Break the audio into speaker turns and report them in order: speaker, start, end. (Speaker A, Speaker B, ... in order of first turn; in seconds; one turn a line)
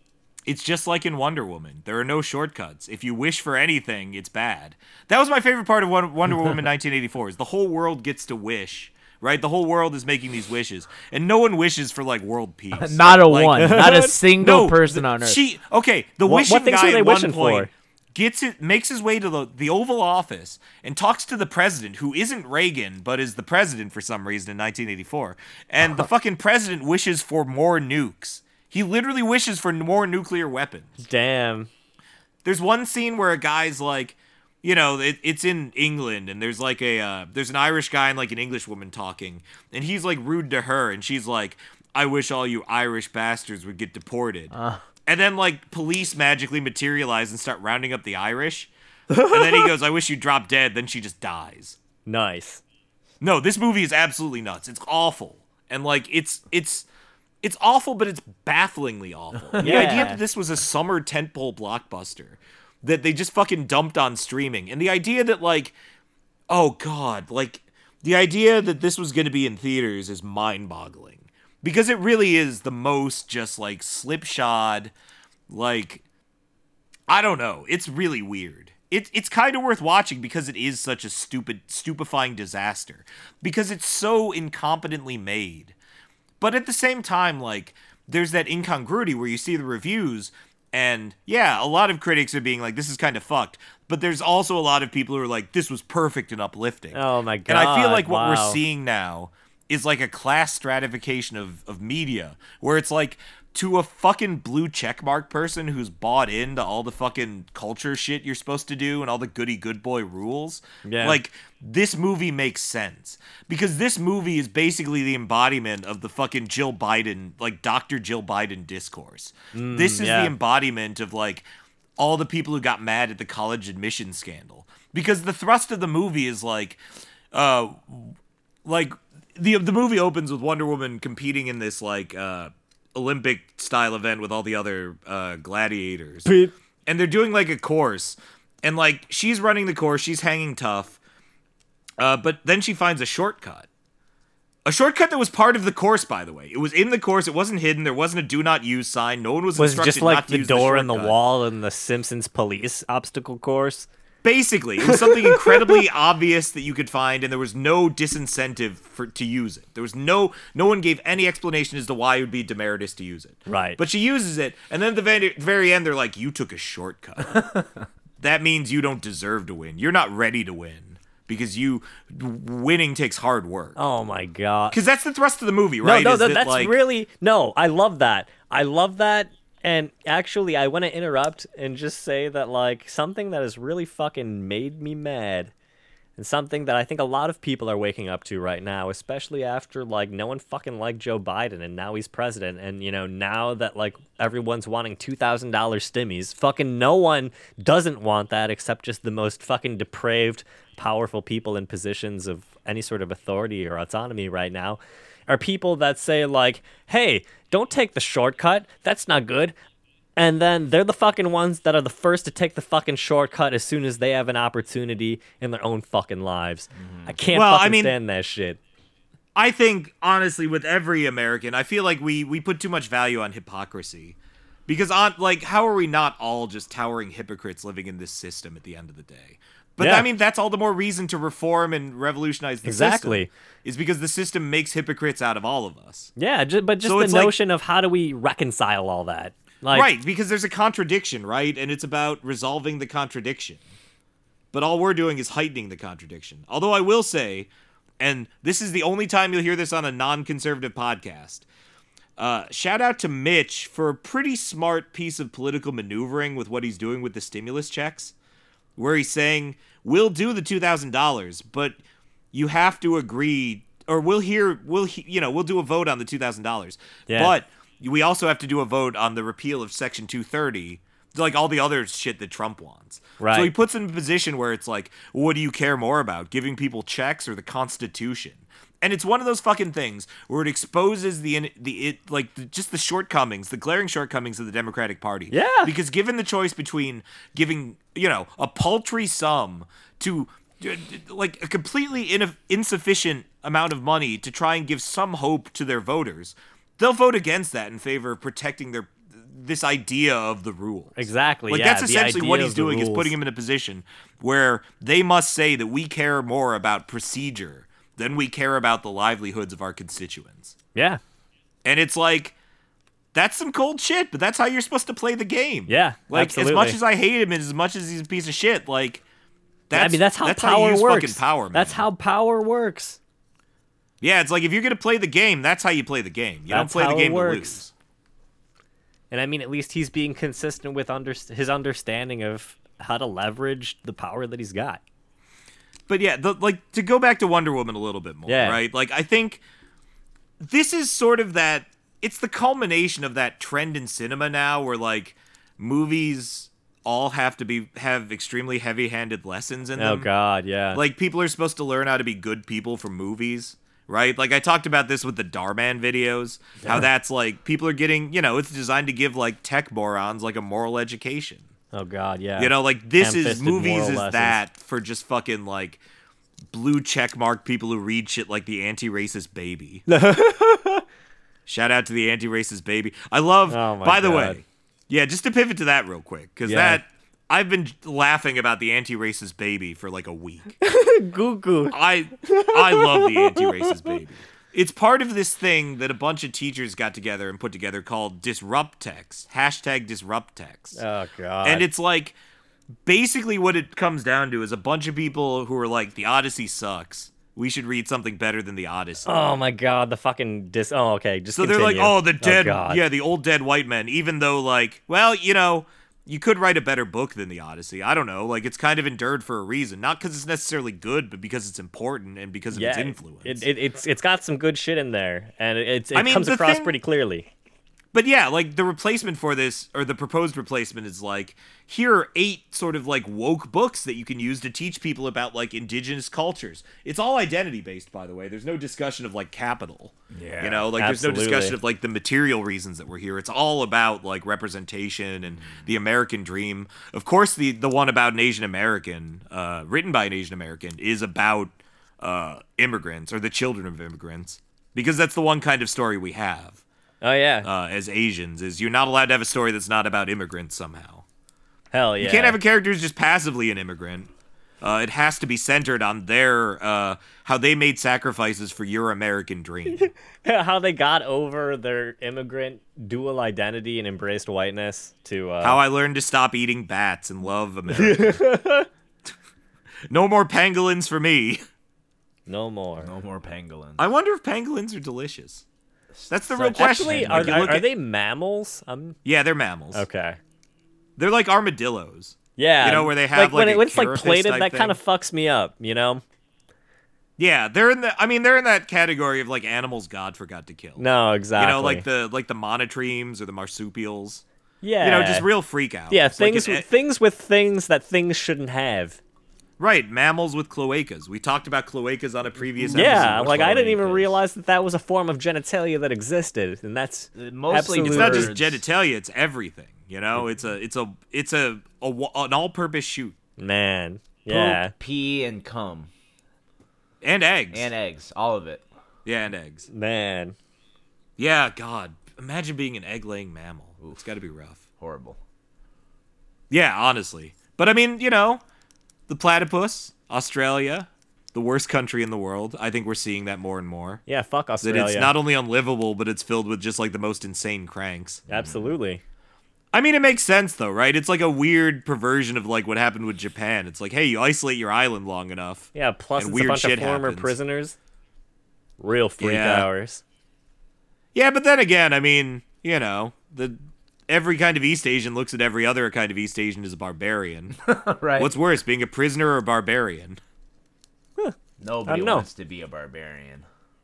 Speaker A: 0.5-31.0
Speaker B: 12.7-15.4
Speaker C: 13.6-14.2
Speaker C: 16.3-17.7
Speaker C: 31.0-31.7
Speaker A: 32.5-44.5
Speaker B: 44.5-44.8
Speaker A: 45.1-51.8
Speaker C: 49.1-49.7
Speaker C: 52.1-52.6
Speaker A: 53.2-56.9
Speaker A: 57.4-65.8
Speaker B: 59.5-60.0
Speaker C: 59.6-60.2
Speaker A: 66.5-74.9
Speaker A: 75.5-76.0
Speaker A: 77.1-85.8
Speaker A: 86.4-121.5
Speaker C: 96.9-98.6
Speaker C: 110.8-111.2
Speaker C: 119.5-120.3
Speaker A: 122.0-126.8
Speaker A: 127.3-136.3
Speaker C: 136.3-136.5
Speaker A: 136.9-141.0
Speaker A: 142.0-143.7
Speaker A: 144.7-151.2
Speaker C: 149.6-153.9
Speaker A: 154.2-167.6
Speaker C: 154.8-155.8
Speaker C: 163.5-163.8
Speaker A: 168.2-173.8
Speaker C: 173.8-174.8
Speaker A: 174.7-176.8
Speaker C: 175.8-185.5
Speaker C: 186.2-209.5
Speaker C: 210.2-218.6
Speaker B: 216.8-217.2
Speaker A: 217.3-217.9
Speaker A: 219.3-224.2
Speaker A: 224.7-236.1
Speaker C: 229.8-230.1
Speaker C: 232.6-233.3
Speaker C: 236.2-239.9
Speaker A: 236.8-237.3
Speaker A: 239.7-243.6
Speaker A: 244.5-251.4
Speaker A: 252.2-258.1
Speaker A: 258.8-261.8
Speaker A: 262.3-310.6
Speaker C: 267.1-267.3
Speaker C: 273.2-273.5
Speaker C: 285.3-285.7
Speaker C: 301.0-303.1
Speaker C: 310.8-311.0
Speaker A: 311.6-312.4
Speaker A: 313.1-319.0
Speaker C: 315.7-316.8
Speaker A: 319.7-321.9
Speaker C: 319.7-323.0
Speaker A: 324.0-327.7
Speaker C: 326.5-327.6
Speaker C: 329.1-334.8
Speaker A: 335.9-339.4
Speaker C: 338.3-338.6
Speaker A: 340.4-350.1
Speaker C: 349.8-350.8
Speaker A: 350.7-361.4
Speaker C: 361.7-364.4
Speaker A: 362.4-365.8
Speaker A: 366.5-369.9
Speaker C: 369.9-370.8
Speaker A: 371.5-380.5
Speaker C: 373.5-374.4
Speaker C: 376.4-376.8
Speaker C: 380.6-383.9
Speaker A: 381.7-390.8
Speaker C: 390.8-391.7
Speaker A: 391.4-392.1
Speaker A: 392.9-399.2
Speaker C: 399.1-402.8
Speaker A: 401.4-413.5
Speaker C: 412.5-417.3
Speaker A: 415.9-416.8
Speaker A: 417.9-446.6
Speaker B: 430.1-430.7
Speaker C: 430.8-431.6
Speaker C: 447.0-447.5
Speaker A: 447.4-451.0
Speaker C: 451.7-452.4
Speaker A: 452.0-454.1
Speaker A: 454.6-459.9
Speaker C: 459.7-465.6
Speaker A: 465.4-468.2
Speaker C: 467.7-468.7
Speaker A: 469.9-471.4
Speaker C: 472.3-472.9
Speaker B: 472.8-473.9
Speaker A: 473.8-475.4
Speaker B: 475.9-477.6
Speaker A: 476.1-477.7
Speaker C: 476.5-479.0
Speaker A: 479.1-479.8
Speaker C: 479.7-480.2
Speaker A: 481.0-484.8
Speaker C: 482.4-486.0
Speaker A: 487.2-490.9
Speaker C: 490.8-491.8
Speaker A: 491.4-494.2
Speaker C: 494.6-495.3
Speaker A: 494.8-496.7
Speaker C: 495.9-499.0
Speaker A: 499.6-504.1
Speaker B: 502.4-503.8
Speaker C: 502.7-508.3
Speaker B: 507.1-508.6
Speaker A: 507.9-513.2
Speaker C: 513.4-514.7
Speaker B: 514.3-515.9
Speaker A: 517.0-517.7
Speaker B: 517.5-518.6
Speaker A: 519.0-519.7
Speaker C: 519.7-520.4
Speaker A: 521.2-524.6
Speaker B: 524.8-525.2
Speaker A: 526.5-528.4
Speaker A: 529.1-534.0
Speaker C: 534.1-535.1
Speaker A: 534.6-538.2
Speaker B: 538.3-538.8
Speaker C: 538.3-539.0
Speaker A: 539.7-547.4
Speaker C: 545.8-547.8
Speaker C: 548.8-550.0
Speaker A: 549.2-549.7
Speaker A: 551.1-553.6
Speaker A: 554.1-557.6
Speaker B: 557.6-558.3
Speaker A: 558.2-560.2
Speaker B: 561.6-563.5
Speaker C: 561.9-562.2